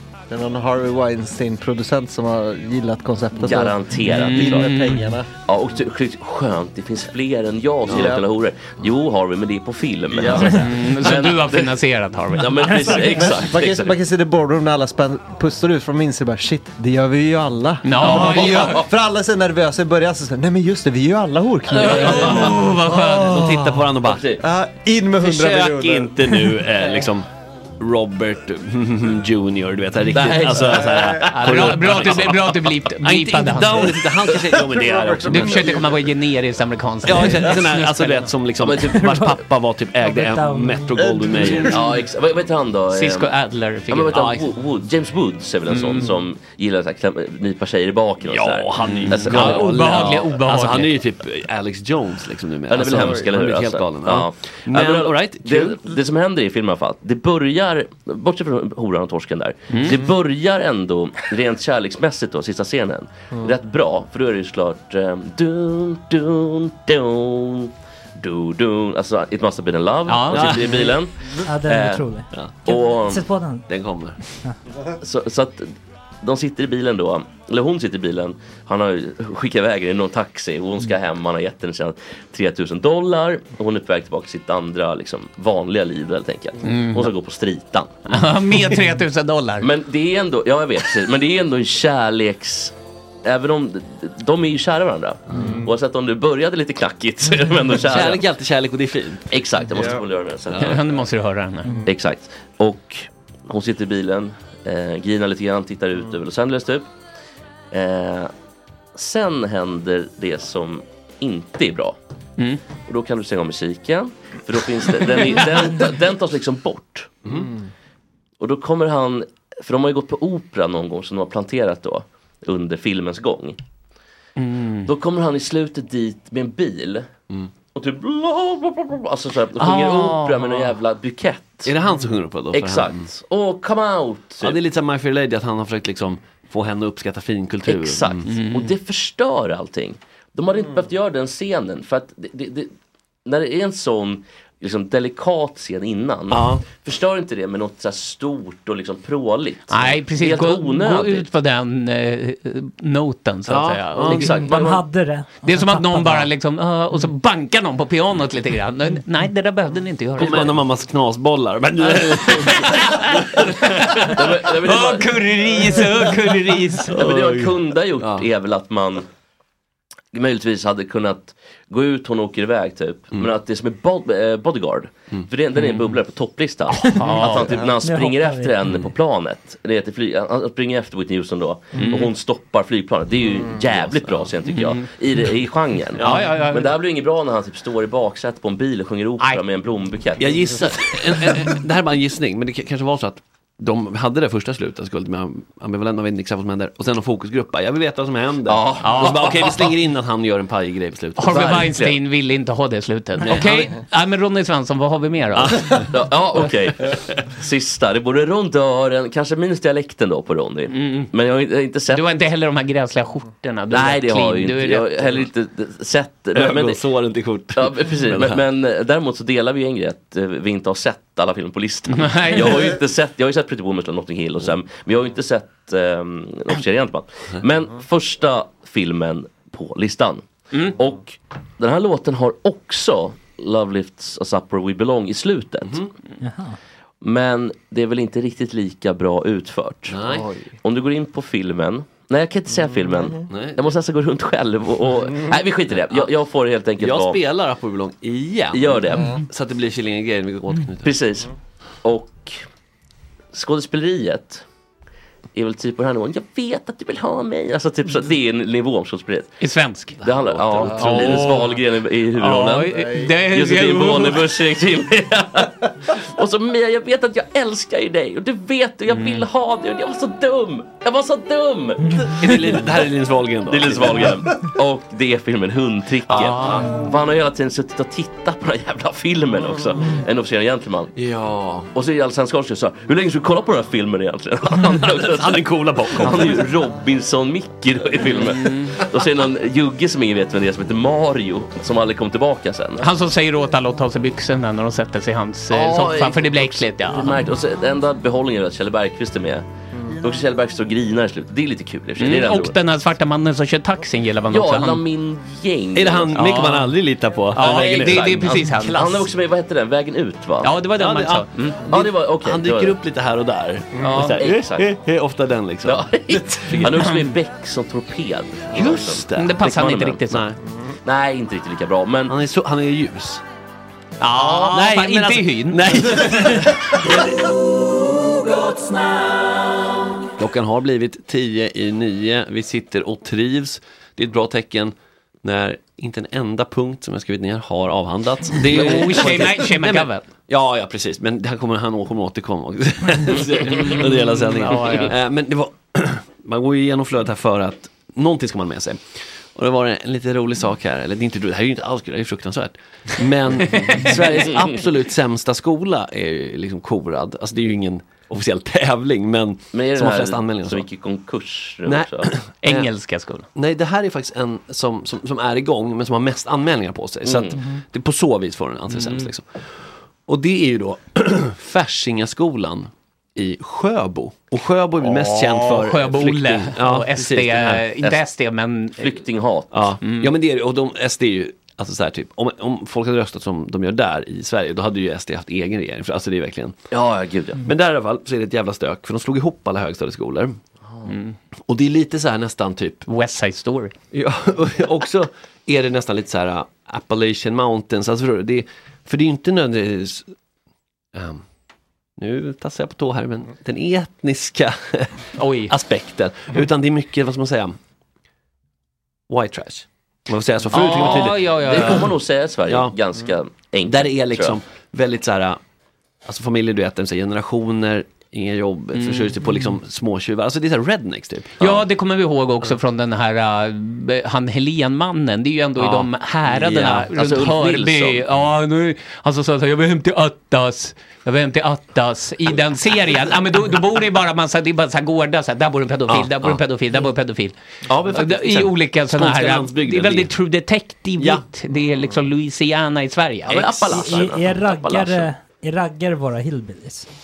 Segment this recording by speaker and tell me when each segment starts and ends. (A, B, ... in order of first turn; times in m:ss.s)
0:00.3-0:05.3 A
0:03.4-0:04.8 B
0:04.1-0:05.1 C
0:05.4-0:11.8 B
0:07.9-0:08.2 A
0:10.1-0:10.6 A
0:10.5-0:13.1 C
0:12.4-0:14.0 B
0:13.1-0:26.9 A
0:17.8-0:18.8 C
0:18.1-0:18.8 B
0:21.7-0:23.4 C
0:21.7-0:24.3 D
0:24.0-0:24.4 B
0:25.2-0:27.3 D
0:27.8-0:35.8 D
0:30.1-0:32.2 B
0:31.2-0:34.0 C
0:34.5-0:35.8 A
0:35.2-0:38.3 C
0:37.0-0:41.9 D
0:38.6-0:39.0 B
0:38.8-0:39.4 E
0:40.0-0:41.5 E
0:41.0-0:41.7 A
0:41.7-0:43.3 B
0:42.9-0:44.2 C
0:43.9-0:49.7 B
0:44.1-0:44.5 D
0:45.7-0:46.1 C
0:48.2-0:55.9 D
0:48.8-0:51.0 C
0:52.7-1:12.1 B
0:59.7-1:00.0 C
1:10.1-1:10.7 C
1:10.3-1:11.0 D
1:11.4-1:13.7 E
1:12.3-1:12.6 D
1:12.6-1:13.2 B
1:13.7-1:14.2 D
1:15.0-1:15.7 B
1:16.2-1:28.0 B
1:26.6-1:27.1 C
1:28.1-1:29.7 C
1:29.6-1:38.2 B
1:35.3-1:35.6 D
1:37.8-1:39.3 D
1:39.3-1:40.8 B
1:40.5-1:40.8 D
1:40.6-1:41.8 C
1:41.9-1:46.9 B
1:47.7-1:48.3 B
1:49.0-1:52.0 B
1:52.9-1:57.3 B
1:58.4-2:03.6 B
2:04.4-2:04.9 C
2:04.9-2:07.1 B
2:07.7-2:11.7 B
2:09.6-2:10.7 C
2:11.6-2:13.1 D
2:12.5-2:14.6 B
2:14.4-2:18.4 D
2:17.7-2:22.7 B
2:18.3-2:18.7 C
2:23.3-2:31.3 B
2:26.3-2:26.6 D
2:29.7-2:34.3 C
2:33.5-2:34.4 D
2:34.0-2:34.8 B
2:34.3-2:36.3 E
2:35.4-2:40.6 C
2:40.2-2:43.6 D
2:42.3-2:47.0 C
2:44.0-2:45.1 B
2:46.9-2:48.3 D
2:46.9-2:49.1 B
2:50.1-3:10.6 B
2:56.7-2:57.6 C
2:57.8-2:58.6 E
3:01.7-3:02.1 C
3:04.0-3:04.3 D
3:04.5-3:04.8 C
3:06.0-3:06.4 D
3:06.0-3:06.8 C
3:10.2-3:21.8 D
3:18.5-3:19.8 B
3:18.8-3:19.2 C
3:21.2-3:25.8 C
3:21.3-3:22.0 B
3:23.2-3:23.7 D
3:25.4-3:25.9 D
3:25.9-3:32.0 B
3:30.7-3:31.1 C
3:31.9-3:35.1 C
3:33.7-3:36.8 B
3:36.4-3:38.4 D
3:37.6-3:55.8 B
3:41.9-3:42.8 C
3:56.2-3:56.6 E
3:57.0-4:00.0 B
3:59.9-4:00.4 D
4:00.6-4:07.2 B
4:03.3-4:03.6 D
4:06.8-4:11.0 D
4:08.5-4:09.2 B
4:10.8-4:11.3 B
4:11.8-4:12.4 B
4:13.3-4:14.4 B
4:15.3-4:19.4 B
4:19.4-4:20.0 C
4:20.0-4:32.6 B
4:20.1-4:21.2 D
4:20.6-4:21.6 C
4:22.2-4:24.3 C
4:28.9-4:29.3 C
4:32.0-4:34.2 D
4:33.5-4:40.9 B
4:36.1-4:36.8 D
4:36.2-4:36.6 C
4:41.0-4:41.7 D
4:41.7-4:52.8 B
4:44.9-4:46.4 D
4:48.2-4:48.7 C
4:52.8-4:57.2 C
4:55.5-4:59.5 B
5:00.0-5:02.6 B
5:02.0-5:04.8 C
5:04.3-5:06.2 B
5:05.8-5:08.8 D
5:06.1-5:06.7 C
5:07.3-5:09.1 C
5:07.4-5:10.6 B
5:10.4-5:11.6 C
5:10.7-5:15.9 D
5:11.6-5:12.8 B
5:13.8-5:14.7 B
5:15.6-5:20.0 B
5:16.6-5:17.1 C
5:18.5-5:19.4 D
5:19.1-5:20.3 C
5:20.1-5:20.4 D
5:20.8-5:22.2 B
5:22.1-5:23.2 D
5:24.0-5:26.6 C
5:24.2-5:27.2 D
5:30.2-5:48.8 D
5:38.4-5:40.0 C
5:43.5-5:44.9 C
5:49.3-6:00.6 D
5:53.6-5:54.0 C
5:59.5-6:02.1 B
6:01.6-6:02.7 D
6:02.4-6:03.3 C
6:03.4-6:17.7 D
6:07.0-6:07.4 B
6:08.7-6:09.1 C
6:14.8-6:19.0 C
6:18.8-6:19.7 B
6:19.5-6:26.6 D
6:19.8-6:20.1 C
6:26.7-6:27.5 B
6:27.4-6:30.4 D
6:30.9-6:31.1 C
6:31.5-6:32.9 D
6:32.9-6:33.8 C
6:33.9-6:40.1 D
6:40.9-6:41.2 D
6:42.0-6:47.6 D
6:45.2-6:45.5 C
6:49.1-6:51.9 D
6:50.5-6:51.9 C
6:50.7-6:54.4 B
6:52.5-6:52.8 D
6:53.6-6:55.4 D
6:56.1-7:01.4 D
6:58.8-6:59.2 C
7:01.4-7:17.4 C
7:05.6-7:06.9 D
7:06.9-7:08.0 B
7:15.9-7:16.4 D
7:17.7-7:20.1 D
7:17.9-7:23.6 C
7:21.0-7:21.2 D
7:23.3-7:25.1 B
7:23.7-7:26.9 E